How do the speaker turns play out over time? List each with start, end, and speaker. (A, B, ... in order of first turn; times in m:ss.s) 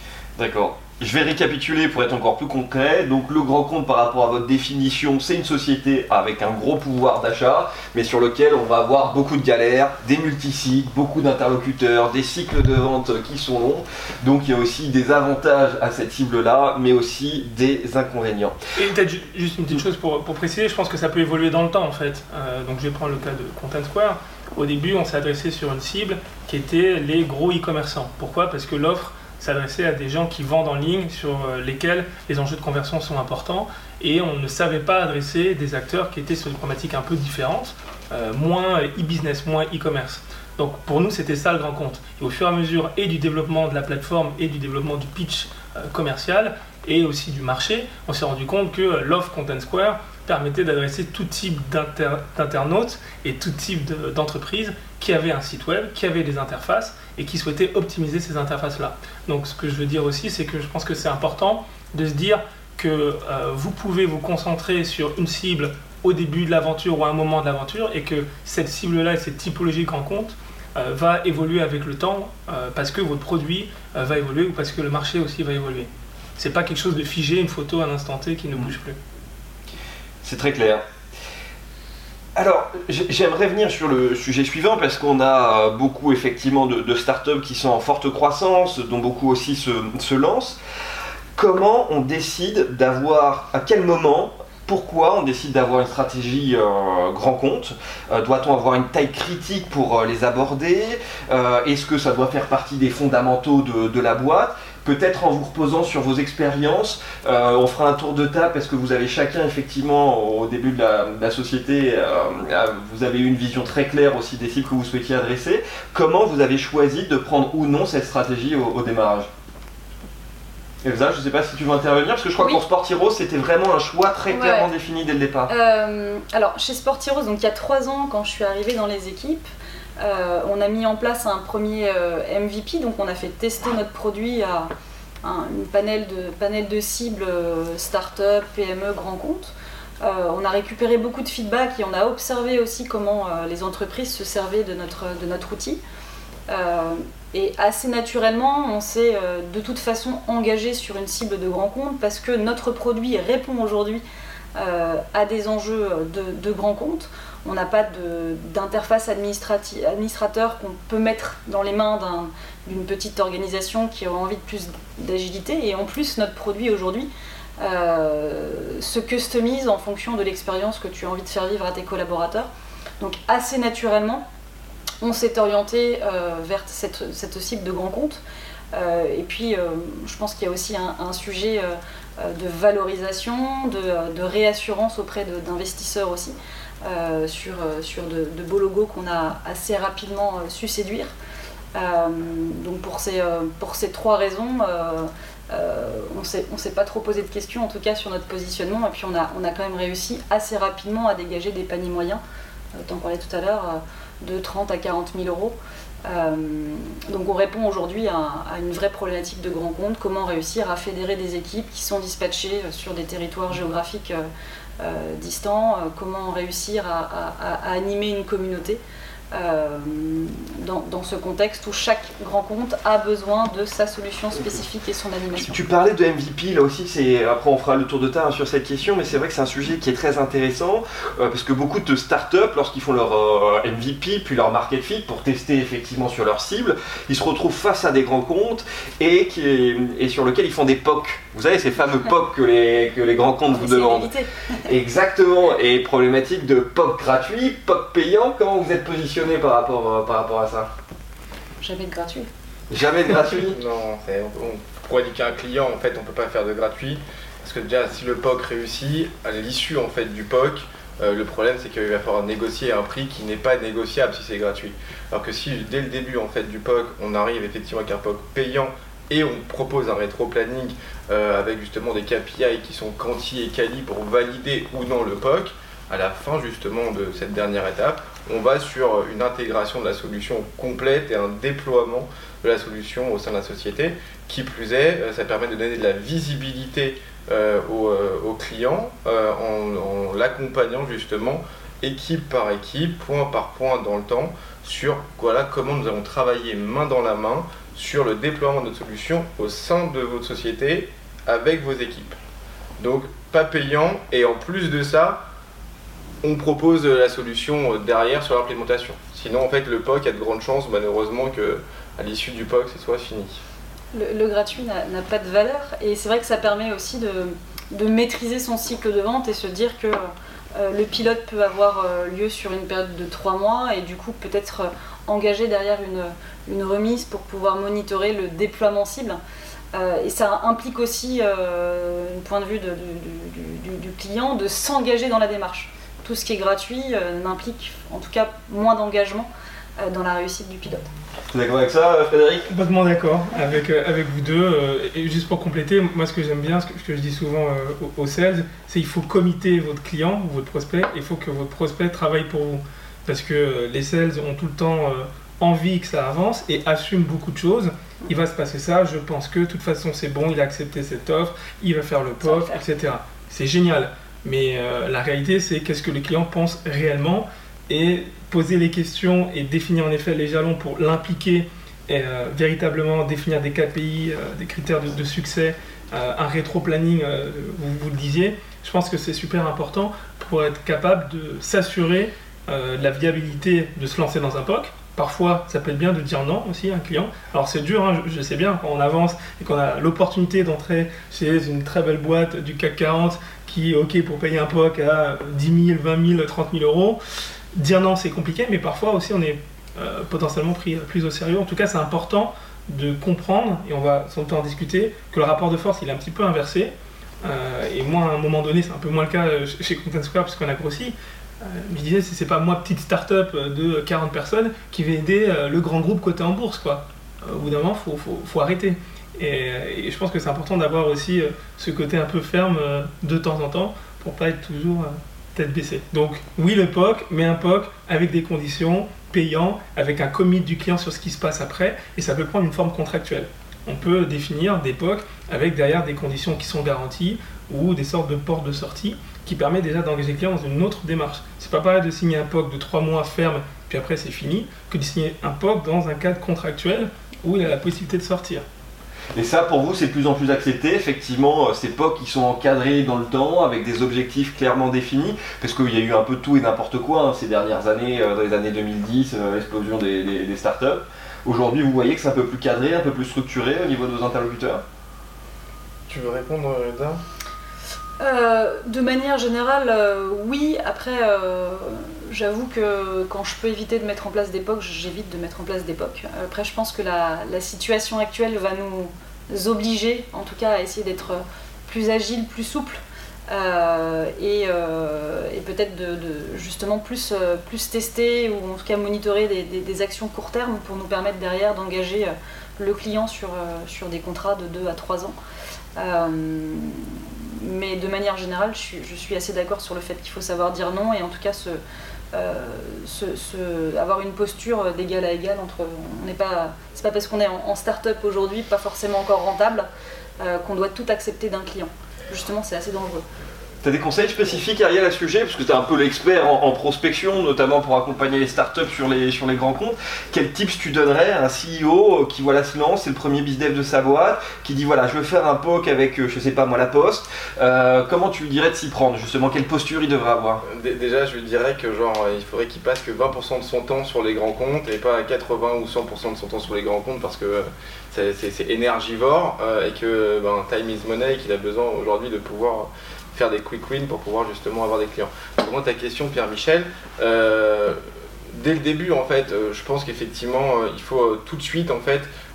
0:00.4-0:18.6 A
0:18.8-1:19.0 B
1:20.2-1:20.8 A
1:22.4-1:30.6 A
1:31.4-1:59.3 A
2:00.8-2:05.5 A
2:04.3-2:04.7 C
2:05.5-2:09.5 C
2:10.0-2:14.7 C
2:15.2-2:25.8 C
2:26.5-2:34.0 C
2:34.6-2:54.2 C
2:55.0-2:58.2 C
2:58.7-3:11.1 C
3:11.8-3:22.2 C
3:22.7-3:34.3 C
3:34.8-3:38.8 C
3:39.3-3:45.5 C
3:45.3-4:04.1 A
4:03.5-4:04.6 C
4:04.6-4:10.7 A
4:11.6-4:12.3 C
4:12.7-4:13.6 A
4:13.4-5:02.2 D
5:02.8-5:05.3 D
5:06.2-5:13.4 D
5:13.9-5:29.2 C
5:29.7-5:40.9 C
5:41.3-5:42.5 A
5:42.5-6:37.0 B
6:02.3-6:02.6 C
6:37.6-7:28.4 B
7:29.1-7:44.6 A
7:45.9-7:47.0 D
7:48.0-8:15.2 C
8:15.8-8:21.6 C
8:22.1-8:29.7 C
8:30.2-8:33.0 C
8:33.6-8:50.4 A
8:50.4-9:12.1 D